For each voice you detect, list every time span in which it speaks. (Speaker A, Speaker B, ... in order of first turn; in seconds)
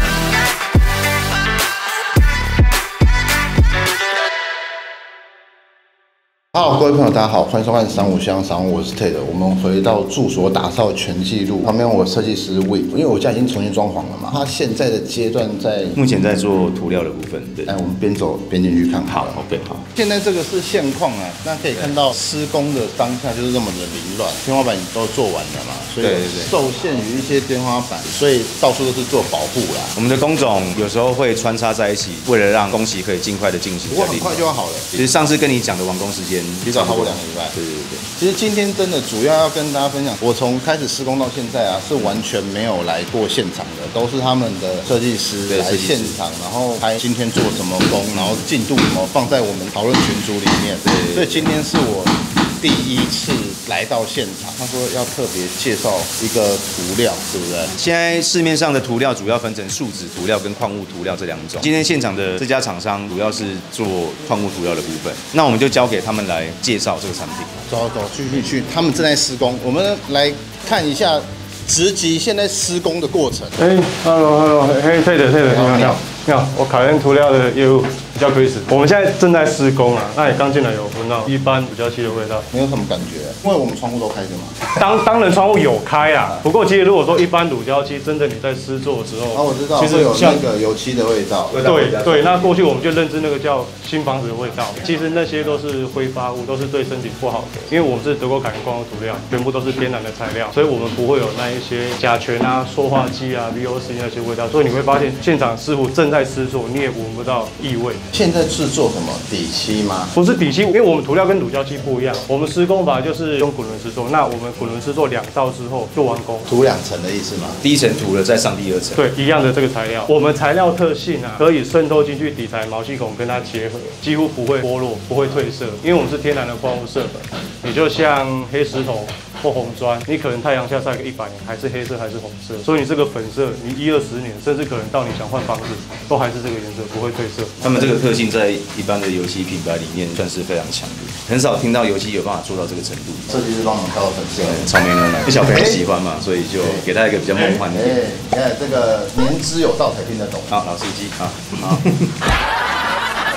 Speaker A: 6.5-16.0, 17.7-19.4, 19.9-30.0, 33.9-34.9, 36.7-37.5, 38.2-57.7, 67.7-73.6, 75.5-76.0, 82.5-84.6, 89.3-91.6, 108.1-110.1, 116.5-117.6, 143.3-144.7, 145.3-145.8, 147.6-150.5
Speaker B: 15.9-17.7, 19.1-19.9, 26.0-26.5, 29.9-38.0, 45.5-46.2, 50.8-51.4, 57.8-67.5, 91.5-92.6, 117.6-119.0, 137.6-143.3, 144.4-148.0, 150.5-152.1
Speaker C: 73.6-82.5, 84.7-90.4, 91.6-108.0, 110.2-116.5, 119.0-137.6